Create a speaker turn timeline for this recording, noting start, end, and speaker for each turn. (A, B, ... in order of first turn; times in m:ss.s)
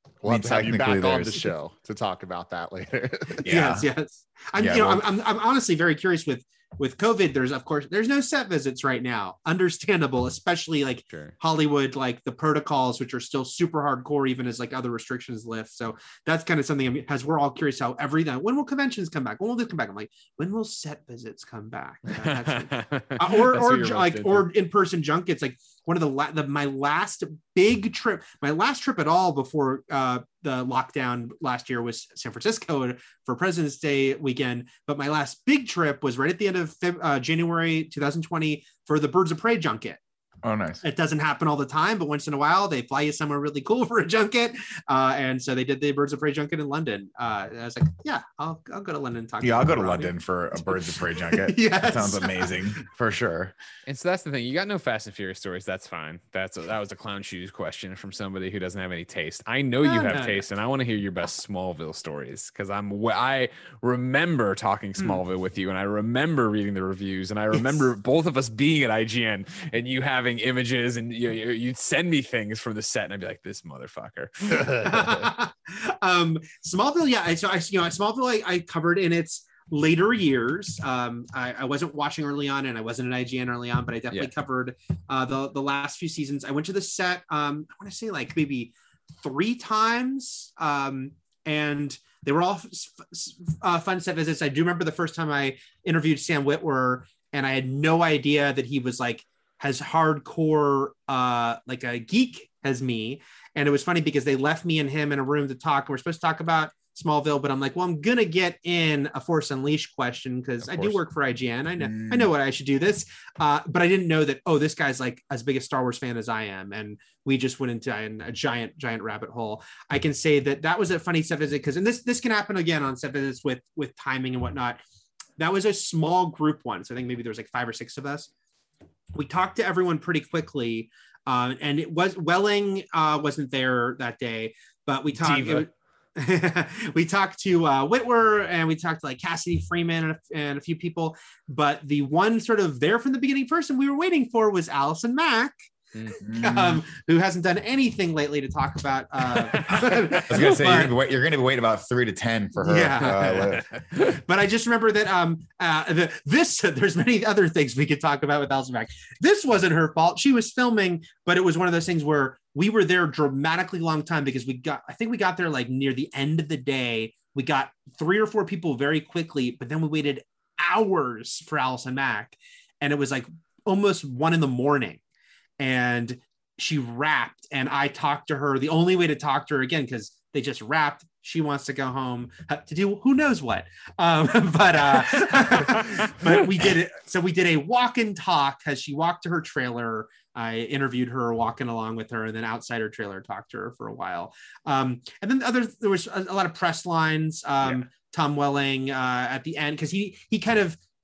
0:00.2-0:03.5 A
0:00.2-0:01.5 B
0:03.4-0:03.9 B
0:03.4-0:40.0 C
0:04.6-0:05.0 B
0:22.2-0:24.5 D
0:40.4-0:40.8 B
0:40.8-0:50.1 C
0:49.4-0:53.6 B
0:50.6-0:52.6 C
0:53.9-1:14.9 D
0:59.8-1:00.4 C
1:14.7-2:04.8 C
1:50.6-1:51.0 D
1:51.8-1:52.3 B
2:05.4-2:08.3 C
2:09.2-2:25.6 C
2:15.2-2:15.6 D
2:26.1-2:30.9 C
2:26.2-2:26.8 B
2:29.7-2:33.6 B
2:32.6-2:55.0 C
2:33.0-2:34.1 D
2:55.6-3:20.8 C